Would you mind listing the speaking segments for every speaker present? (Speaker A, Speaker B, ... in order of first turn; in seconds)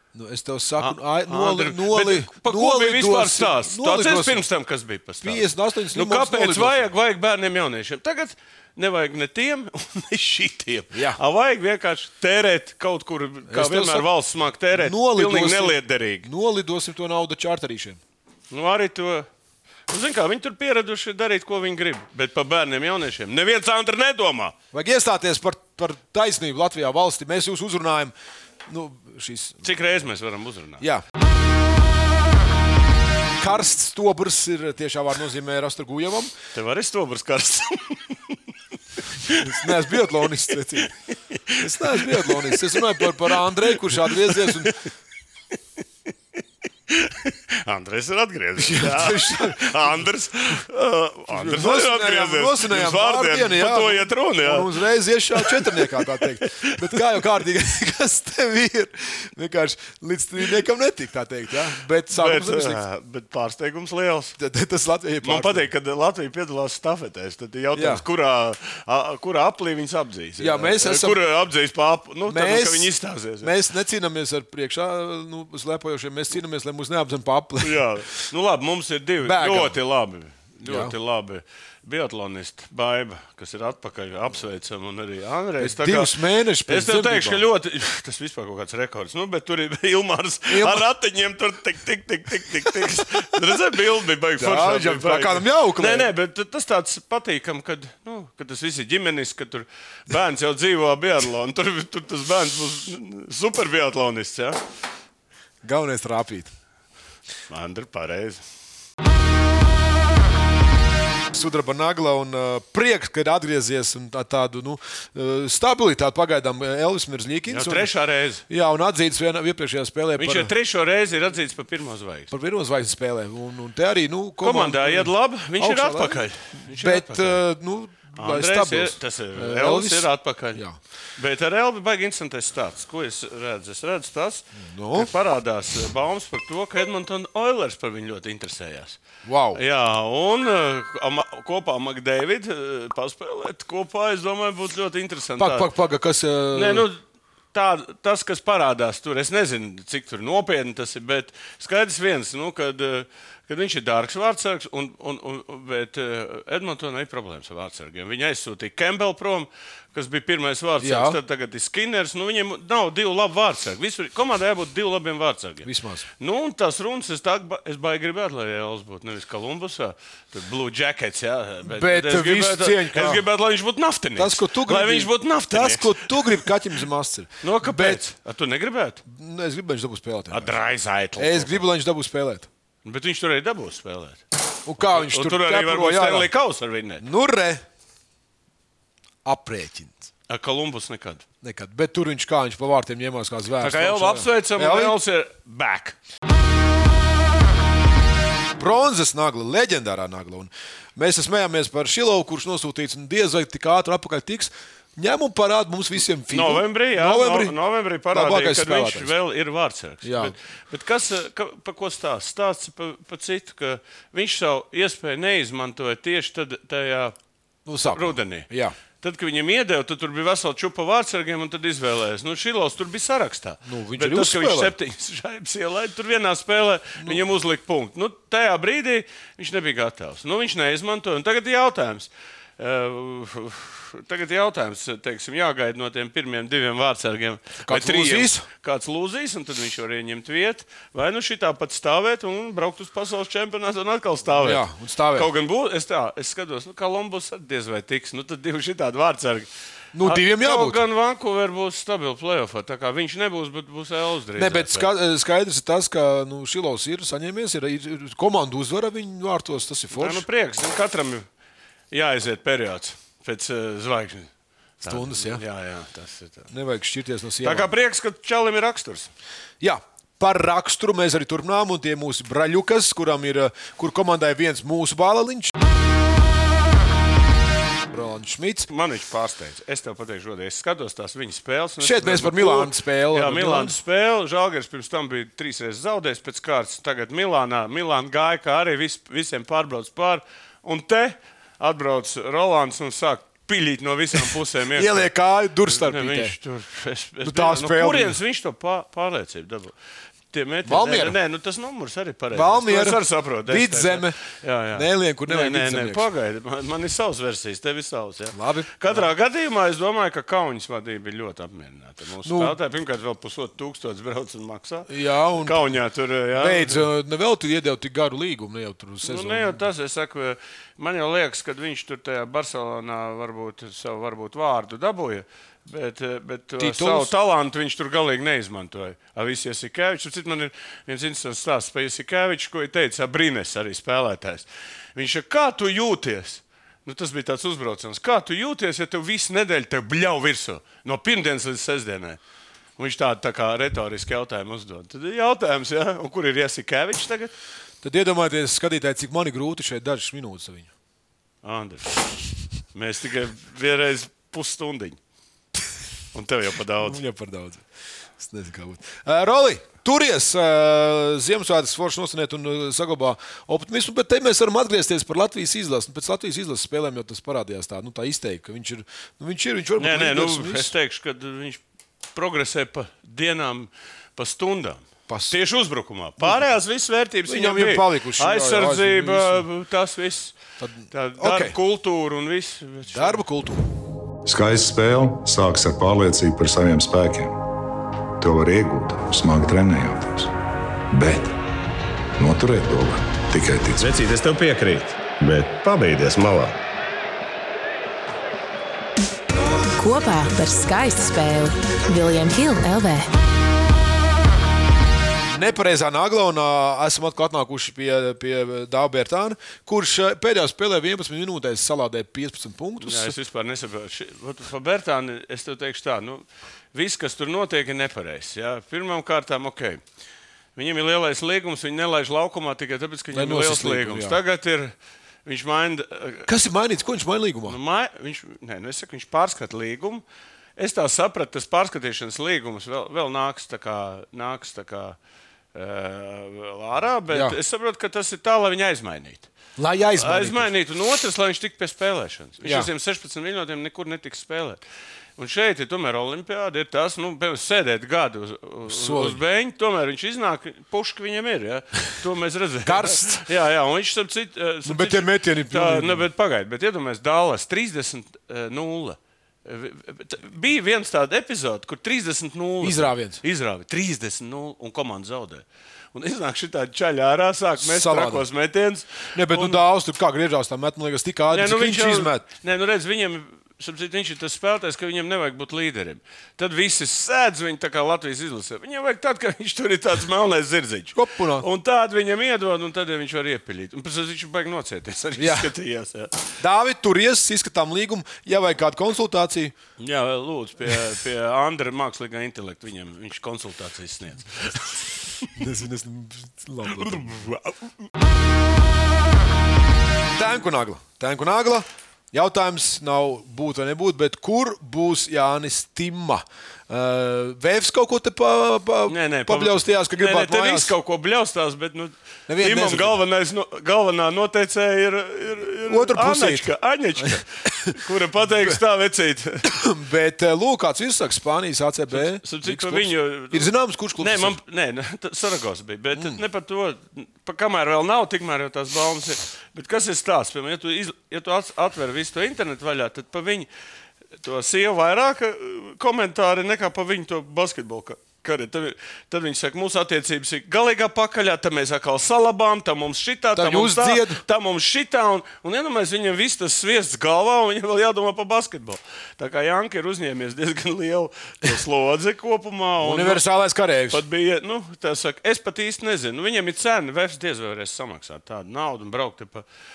Speaker A: 0.1-4.4, 5.2-6.9, 10.9-11.2, 13.5-14.1, 14.7-18.0, 24.7-28.1, 28.6-29.6, 33.4-36.3, 39.3-40.9, 41.5-44.8, 48.6-50.1, 51.3-62.8, 64.4-65.7, 67.7-68.0, 70.4-71.2, 72.3-78.2, 79.2-79.8, 80.7-80.9, 85.6-87.5, 90.5-90.8, 94.4-96.1, 105.6-106.5, 111.3-117.9, 118.5-120.5, 122.3-130.8, 134.6-135.1, 139.2-139.6, 145.3-146.9, 160.8-161.2, 165.6-166.0, 171.7-173.2, 174.2-178.0, 179.1-180.5, 181.2-182.5, 184.7-186.3, 187.0-187.6, 189.2-190.1, 191.4-195.0, 198.6-207.6, 208.1-209.1, 210.0-210.3, 217.7-218.7, 223.6-224.7, 237.6-238.4, 244.3-245.3, 249.9-250.8, 254.3-260.2, 264.8-265.4, 266.5-267.7, 269.6-275.5, 277.9-278.7, 281.8-283.8, 294.7-296.4, 297.2-298.2, 300.6-301.2, 302.3-304.2, 304.7-306.1, 308.3-309.1, 312.2-312.6, 314.9-315.6, 316.3-319.6, 326.6-327.1, 347.8-350.7, 356.8-357.6, 358.2-370.7, 375.1-375.4, 376.2-376.5, 377.2-379.4, 380.6-381.6, 382.9-383.6, 405.3-413.1, 423.1-424.2, 426.2-427.6, 437.1-437.4, 439.6-440.5, 442.4-442.7, 448.7-449.2, 452.6-453.2, 454.6-456.1, 462.6-463.2, 467.6-468.2, 469.1-472.2, 480.9-481.4, 485.2-485.5, 486.4-489.5, 495.4-497.3, 500.1-510.7, 512.3-513.0, 515.6-517.8, 519.5-524.4, 543.3-544.2, 552.8-554.0
Speaker B: 0.8-16.3, 18.5-19.3, 19.9-24.5, 29.6-30.8, 36.5-38.4, 39.2-40.0, 41.3-44.7, 46.9-54.8, 55.4-57.2, 62.1-64.3, 65.2-73.5, 77.6-104.6, 107.5-108.4, 117.5-118.4, 120.2-122.3, 124.4-127.4, 128.1-130.6, 131.2-139.0, 139.5-145.7, 146.5-147.0, 147.5-165.7, 166.2-176.5, 177.4-179.0, 180.3-181.6, 182.8-184.2, 184.8-187.1, 190.3-191.2, 193.6-195.9, 206.3-217.2, 217.8-249.5, 250.0-254.9, 259.9-261.3, 261.9-264.3, 264.8-266.5, 267.4-269.1, 278.7-295.1, 295.6-299.7, 300.3-316.8, 319.0-342.2, 342.8-347.3, 351.4-352.0, 352.7-355.0, 356.1-357.0, 369.8-371.6, 372.1-380.3, 380.9-383.2, 412.8-419.8, 420.6-426.3, 427.4-430.0, 430.6-435.0, 435.5-439.3, 439.9-444.6, 445.2-469.6, 471.3-486.1, 489.8-495.3, 496.7-497.6, 508.9-519.6, 521.9-533.5, 534.2-553.2, 553.9-559.5
Speaker C: 384.2-387.4, 388.2-390.3, 390.9-391.3, 392.2-393.9
Speaker D: 393.8-396.6
Speaker E: 399.8-403.1